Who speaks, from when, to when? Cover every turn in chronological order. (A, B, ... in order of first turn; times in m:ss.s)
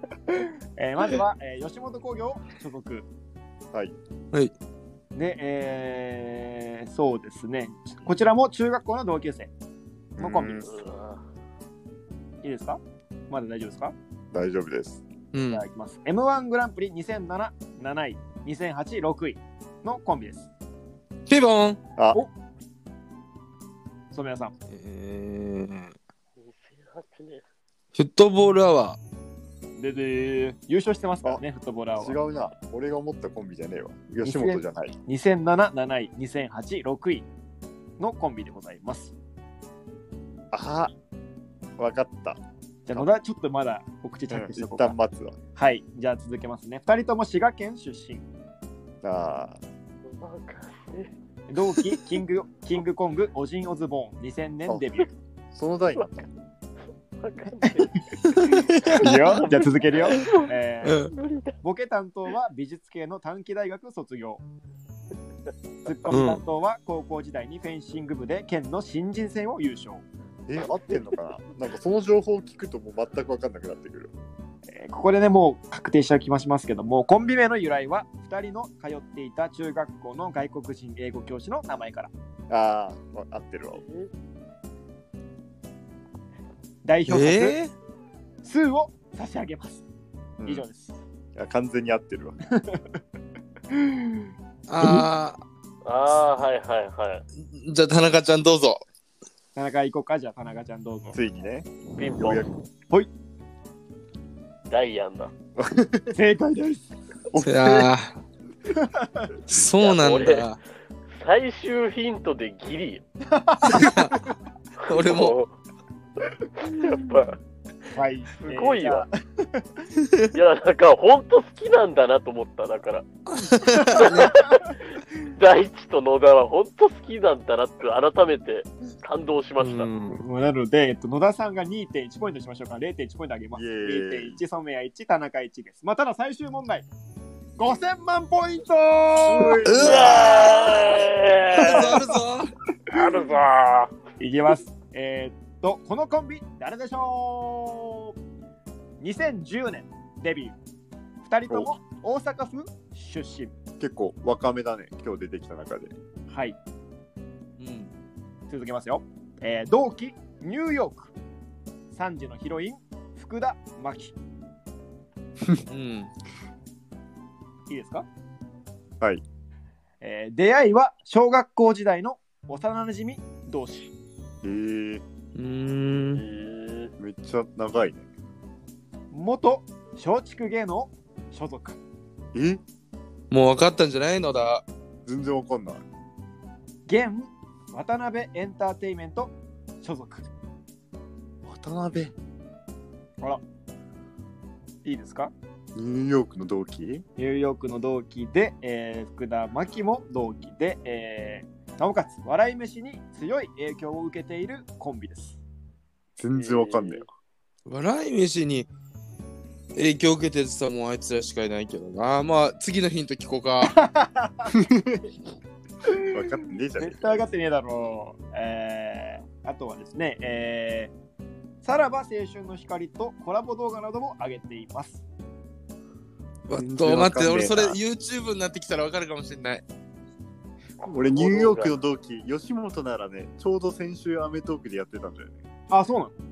0:00.3-0:03.1 A
0:05.1-0:09.5 A
0:10.2-0:10.7 B
0:10.2-0:10.6 A
0:10.6-0:11.2 C
0:12.4-0:13.9 A
0:14.3-0:15.0 B
0:15.3-0:15.6 D
0:15.4-0:20.5 A
0:21.3-0:21.8 D
0:24.1-0:24.5 A
0:24.7-0:25.9 D
0:26.4-0:27.4 C
0:27.9-0:29.0 D
0:29.8-0:32.2 A
0:32.0-0:35.0 B
0:34.2-0:37.3 A
0:38.0-0:39.1 A
0:40.5-0:40.9 B
0:41.8-0:42.4 B
0:42.8-0:45.0 A
0:44.3-0:45.4 B
0:45.5-0:48.2 A
0:49.0-0:49.6 B
0:50.0-0:51.1 C
0:51.5-0:55.1 A
0:55.5-0:56.2 B
0:57.2-0:58.0 C
0:57.6-1:01.1 A
0:58.4-0:59.4 D
0:59.1-1:00.5 C
1:00.8-1:01.1 D
1:01.1-1:01.5 C
1:01.6-1:04.4 A
1:05.8-1:10.0 A
1:06.1-1:06.4 D
1:10.5-1:14.1 B
1:14.7-1:22.1 A
1:22.5-1:23.8 B
1:23.7-1:24.1 C
1:26.8-1:27.6 A
1:27.1-1:27.7 D
1:28.4-1:29.8 A
1:30.4-1:30.6 B
1:30.4-1:31.0 A
1:31.3-1:32.4 B
1:32.5-1:32.8 A
1:33.7-1:34.3 A
1:34.7-1:35.4 D
1:35.8-1:37.2 C
1:37.4-1:38.8 D
1:39.6-1:41.2 A
1:41.1-1:42.5 B
1:42.0-1:42.4 C
1:44.7-1:45.3 C
1:45.6-1:46.1 B
1:46.1-1:46.9 A
1:47.3-1:47.8 B
1:47.4-1:48.2 D
1:48.7-1:49.3 A
1:49.5-1:50.6 D
1:49.8-1:50.5 C
1:51.2-1:53.0 C
1:53.3-1:54.0 A
1:53.6-1:54.2 D
1:54.8-1:55.3 D
1:54.8-1:55.5 C
1:56.6-1:57.4 C
1:57.9-1:59.6 A
1:58.4-1:59.0 C
2:00.3-2:03.1 C
2:03.3-2:04.4 D
2:03.8-2:09.9 C
2:09.6-2:10.2 D
2:10.1-2:16.8 A
2:13.5-2:14.4 B
2:17.6-2:19.6 A
2:19.2-2:21.0 B
2:19.6-2:20.3 D
2:19.8-2:22.0 C
2:21.5-2:22.5 D
2:21.6-2:22.2 A
2:22.9-2:23.9 C
2:24.2-2:28.1 A
2:29.0-2:30.6 A
2:31.2-2:33.5 A
2:33.8-2:35.9 B
2:36.3-2:36.6 A
2:37.6-2:37.9 D
2:38.5-2:41.1 A
2:41.9-2:44.1 A
2:45.7-2:46.1 D
2:47.7-2:48.0 A
2:50.0-2:53.9 A
2:54.4-2:55.0 B
2:55.3-2:56.2 D
2:56.1-2:56.9 C
2:57.0-2:58.0 B
2:59.1-3:01.8 A
3:02.3-3:02.6 B
3:03.3-3:04.6 D
3:05.0-3:05.8 B
3:06.9-3:10.3 A
3:11.4-3:12.1 B
3:14.8-3:15.3 A
3:15.7-3:17.0 B
3:17.2-3:25.4 A
3:26.2-3:27.0 B
3:26.4-3:27.0 C
3:27.6-3:28.7 D
3:29.7-3:33.8 D
3:33.6-3:34.5 A
3:34.5-3:35.1 B
3:36.0-3:37.2 B
3:36.8-3:40.9 A
3:41.6-3:45.0 A
3:46.5-3:49.6 D
3:46.5-3:47.8 B
3:50.8-3:51.7 C
3:50.9-3:55.4 B
3:55.7-3:56.1 A